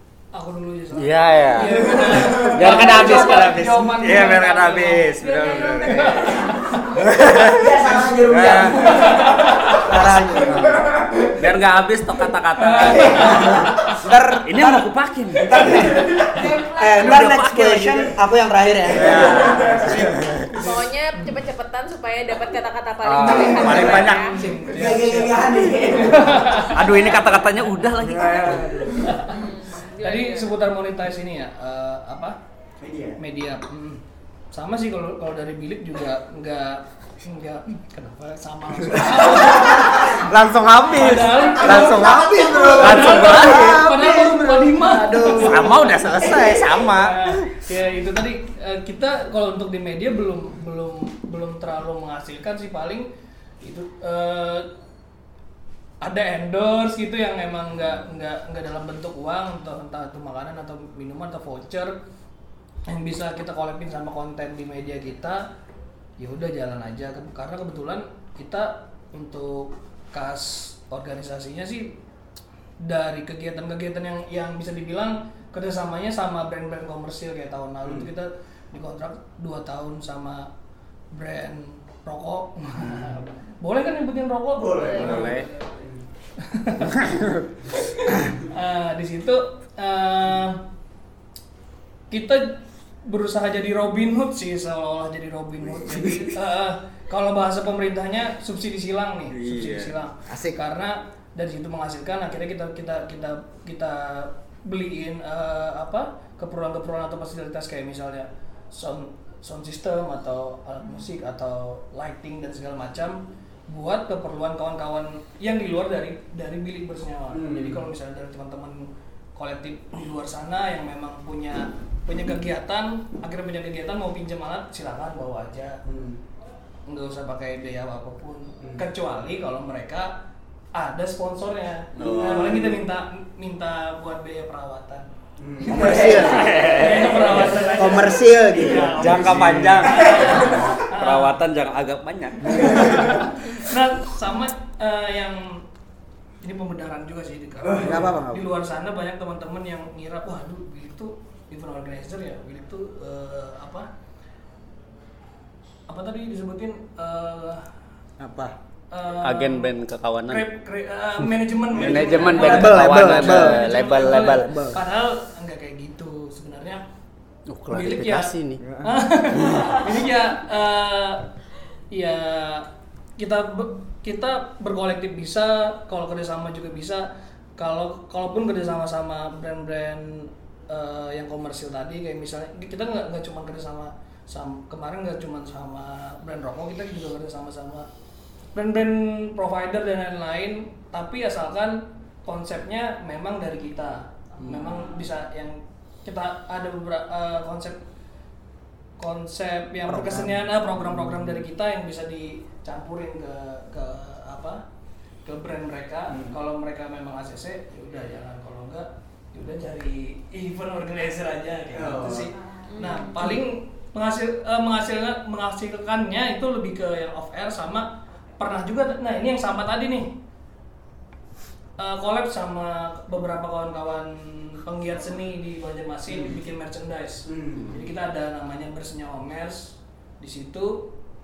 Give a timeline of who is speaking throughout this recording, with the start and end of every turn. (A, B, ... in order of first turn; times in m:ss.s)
0:00.3-0:07.0 A
0:00.9-0:06.4 B
0:02.0-0:03.0 C
0:05.9-0:06.6 D
0:07.0-0:09.0 B
0:07.2-0:11.4 D
0:08.9-0:09.8 A
0:09.7-0:10.8 C
0:10.5-0:13.6 B
0:12.6-0:14.0 A
0:12.9-0:13.4 D
0:13.2-0:20.2 C
0:14.4-0:15.6 B
0:15.5-0:16.4 D
0:17.0-0:18.1 B
0:18.9-0:20.4 B
0:18.9-0:20.1 D
0:20.6-0:24.4 E
0:23.0-0:24.4 B
0:23.2-0:24.0 D
0:24.3-0:25.3 A
0:24.6-0:26.1 C
0:24.6-0:27.2 D
0:25.8-0:27.0 A
0:26.6-0:28.8 B
0:28.0-0:29.1 C
0:28.0-0:29.4 D
0:28.9-0:32.4 A
0:29.3-0:30.5 E
0:32.8-0:33.2 D
0:33.2-0:40.2 A
0:39.3-0:40.1 C
0:40.0-0:43.8 B
0:40.9-0:45.7 A
0:41.6-0:46.8 C
0:45.4-0:47.5 B
0:46.9-0:53.1 A
0:53.6-0:54.7 A
0:56.0-1:02.0 A
1:02.9-1:05.5 A
1:06.2-1:12.0 A
1:12.8-1:20.5 A
1:17.8-1:18.1 D
1:21.1-1:25.7 A
1:22.8-1:23.2 D
1:24.6-1:26.0 D
1:24.9-1:25.5 B
1:26.4-1:27.2 A
1:27.0-1:27.4 C
1:27.8-1:30.6 A
1:32.1-2:05.8 A
1:39.3-1:39.9 B
1:40.3-1:40.6 C
1:57.3-1:57.9 D
2:05.8-2:06.2 D
2:06.9-2:10.2 A
2:10.7-2:15.1 A
2:12.0-2:12.6 B
2:12.0-2:12.8 D
2:15.4-2:20.7 D
2:15.6-2:16.6 C
2:16.2-2:17.1 B
2:16.2-2:21.4 A
2:17.3-2:19.4 C
2:19.0-2:22.8 B
2:22.5-2:23.0 C
2:22.5-2:25.6 A
2:26.4-2:33.9 A
2:27.6-2:28.1 D
2:27.8-2:28.5 C
2:35.9-2:37.7 A
2:38.2-2:38.6 C
2:38.9-2:39.7 A
2:39.2-2:40.4 B
2:40.3-2:46.8 A
2:41.7-2:44.7 B
2:41.8-2:42.4 D
2:42.3-2:43.6 C
2:44.4-2:44.8 C
2:47.5-2:48.6 B
2:47.7-2:51.3 A
2:48.6-2:49.1 C
2:51.9-2:52.7 A
2:53.2-3:07.9 A
3:08.5-3:17.8 A
3:14.5-3:15.0 D
3:19.0-3:24.6 A
3:19.9-3:21.3 C
3:25.2-3:40.1 A
3:26.1-3:26.4 D
3:31.7-3:32.3 D
3:32.7-3:33.3 E
3:41.8-3:50.9 A
3:47.3-3:47.8 D